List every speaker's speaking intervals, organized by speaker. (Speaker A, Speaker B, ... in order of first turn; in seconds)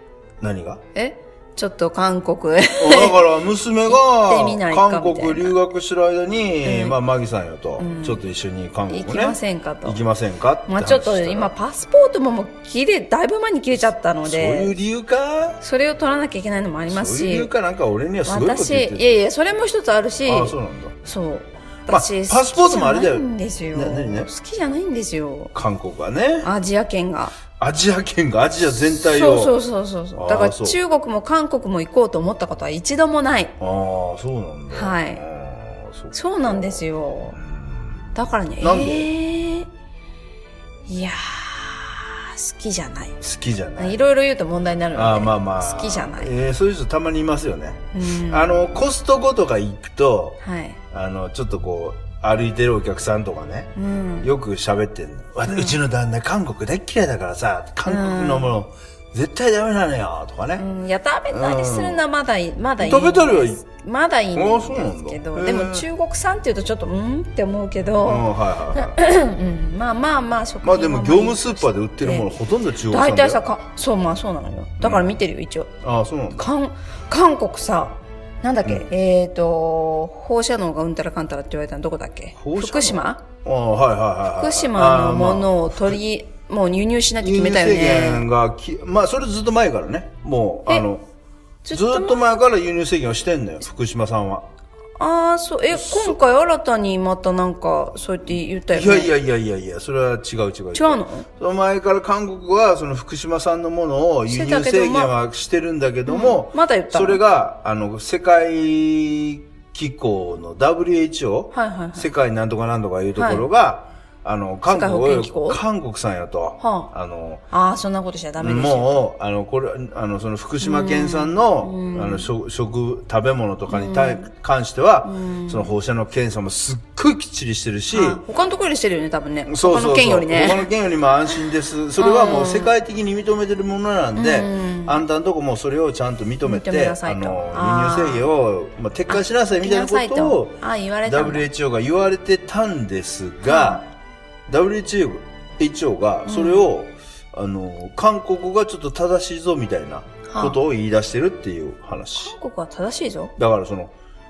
Speaker A: 0.4-0.8, 2.8-11.5, 14.2-15.6, 16.9-19.2, 20.2-20.9, 21.9-24.3, 25.5-26.5, 27.6-29.6, 30.1-30.8, 33.6-39.1, 43.2-44.0, 44.9-50.4, 50.9-60.6, 61.3-62.0, 62.8-63.6, 64.3-65.8, 68.0-69.0, 70.6-73.5, 74.8-75.2, 75.8-76.5, 82.4-86.0, 87.2-91.0, 91.7-94.5, 95.7-96.2, 98.7-117.4, 118.4-128.2, 129.5-143.8, 144.5-152.3, 153.4-153.9
Speaker B: 0.9-3.2, 3.9-5.6, 6.6-7.0, 7.8-8.2, 8.9-10.0, 10.7-14.8, 15.6-17.5, 18.2-25.5, 26.4-27.4, 28.9-33.5, 34.7-35.2, 36.1-37.4, 38.1-39.7, 40.9-43.2, 43.8-46.3, 47.9-48.5, 50.4-50.8, 53.8-54.3, 55.5-55.8, 57.9-58.5, 60.6-72.3, 72.9-75.7, 76.3-83.2, 84.3-88.2, 91.6-92.3, 95.0-99.1, 100.7-101.3, 104.3-105.1, 106.0-107.2, 111.5-112.1, 113.2-113.5, 114.7-115.6, 116.6-116.9, 117.5-119.0, 120.6-122.3, 123.7-124.2, 125.0-125.7, 127.9-130.7, 132.0-132.7, 134.2-135.0, 136.4-138.3, 139.1-141.5, 143.4-143.8, 146.2-146.7, 150.3-150.6, 152.2-153.3